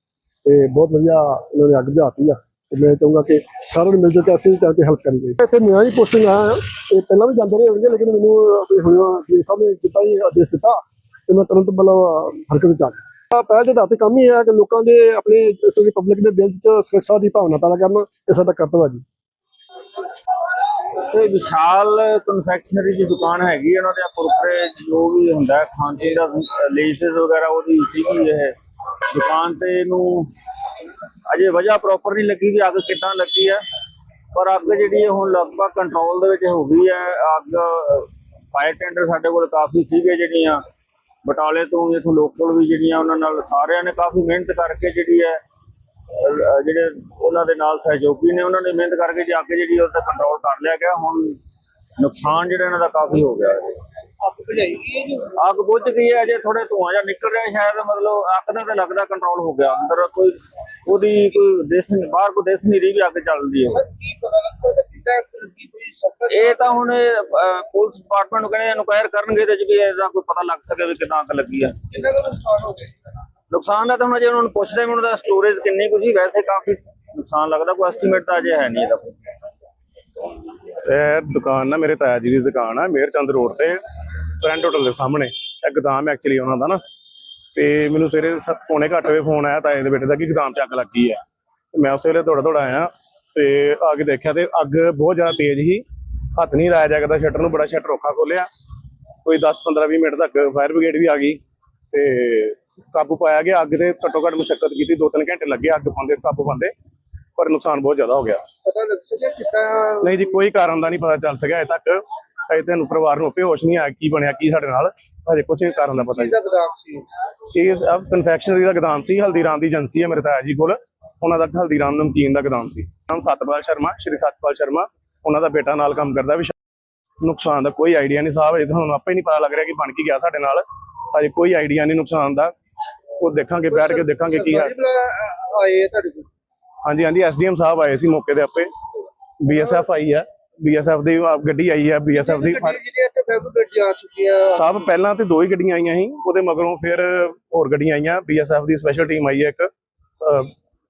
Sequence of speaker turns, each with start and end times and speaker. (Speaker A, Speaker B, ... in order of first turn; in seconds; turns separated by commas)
Speaker A: 0.4-19.0, Speaker B: 21.1-28.5, Speaker B: 29.1-30.3, Speaker B: 31.3-33.6, Speaker B: 34.3-40.6, Speaker B: 41.2-45.4, Speaker B: 46.1-51.4, Speaker B: 52.0-53.8, Speaker C: 54.2-55.2, Speaker B: 55.2-63.9, Speaker C: 63.8-66.7, Speaker B: 66.3-72.0, Speaker C: 72.0-72.9, Speaker B: 73.5-79.3, Speaker D: 80.8-83.8, Speaker D: 84.4-86.8, Speaker D: 87.5-91.2, Speaker D: 91.7-95.8, Speaker D: 96.3-98.5, Speaker D: 99.2-101.4, Speaker D: 101.9-106.7, Speaker D: 107.4-108.4, Speaker C: 108.6-110.1, Speaker D: 110.0-116.3, Speaker C: 116.0-117.0, Speaker D: 117.5-126.5, Speaker D: 127.2-132.5, Speaker D: 133.2-134.7, Speaker C: 133.7-136.3, Speaker D: 136.8-138.7, Speaker D: 139.4-142.8, Speaker C: 142.2-144.7, Speaker D: 144.5-150.5